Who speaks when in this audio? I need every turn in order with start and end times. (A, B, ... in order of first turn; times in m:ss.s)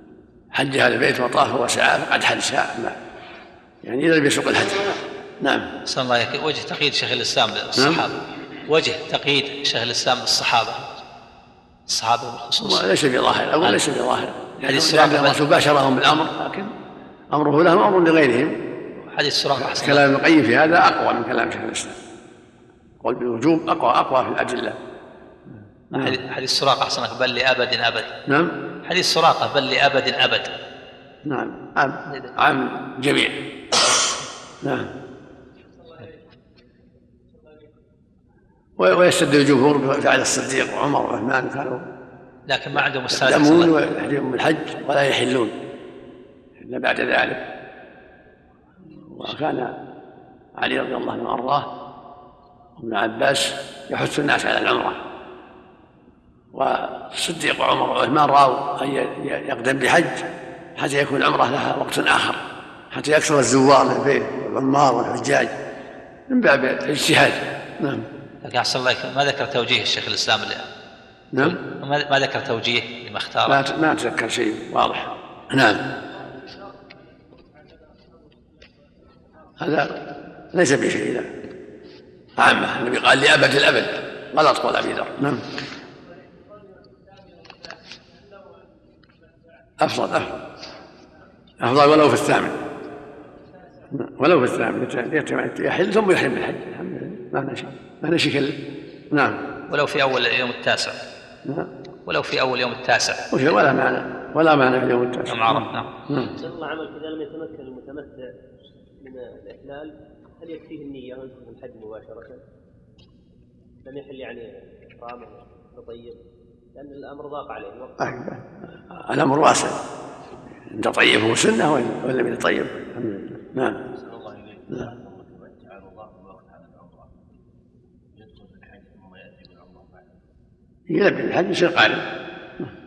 0:00.5-0:03.0 A
0:03.8-0:05.7 A
0:05.9-0:08.2 B
0:07.8-0:08.0 A
0:08.7-0:10.9 B
0:11.9-0:12.9 B
0:12.6-0:16.7 A
0:14.6-0:15.4 B
0:17.3-0:18.6 A
0:19.1-0:20.0 B
0:19.6-0:22.0 A
0:23.0-0:24.8 A
0:26.0-0:28.1 B
0:28.3-0:28.5 A
0:28.9-0:30.5 B
0:31.3-0:33.4 A
0:32.1-0:32.3 B
0:34.6-0:34.9 A
0:35.8-0:36.3 C
0:37.3-0:37.7 C
0:38.8-0:41.8 A
0:42.5-0:43.7 B
0:42.7-0:45.5 A
0:46.6-0:47.4 A
0:49.1-0:49.8 A
0:50.6-0:51.7 A
0:52.8-0:55.0 A
0:56.5-1:05.5 A
1:06.3-1:08.1 A
1:08.4-1:10.7 B
1:11.3-1:11.6 A
1:11.4-1:13.6 B
1:13.5-1:15.8 A
1:16.0-1:19.8 C
1:19.6-1:19.9 A
1:20.5-1:21.3 A
1:22.4-1:25.4 A
1:26.0-1:29.9 C
1:29.8-1:30.4 A
1:31.2-1:32.1 C
1:31.6-1:32.6 A
1:33.2-1:33.9 C
1:33.9-1:38.6 A
1:39.1-1:39.4 A
1:39.7-1:41.0 B
1:41.4-1:41.7 A
1:42.1-1:43.2 B
1:43.3-1:46.3 A
1:45.3-1:45.9 B
1:46.2-1:48.3 C
1:49.0-1:52.4 C
1:53.8-1:56.2 C
1:56.8-1:58.2 C
1:58.0-1:59.8 A
2:00.7-2:03.8 A
2:03.9-2:07.1 C
2:08.2-2:10.1 C
2:10.9-2:12.0 A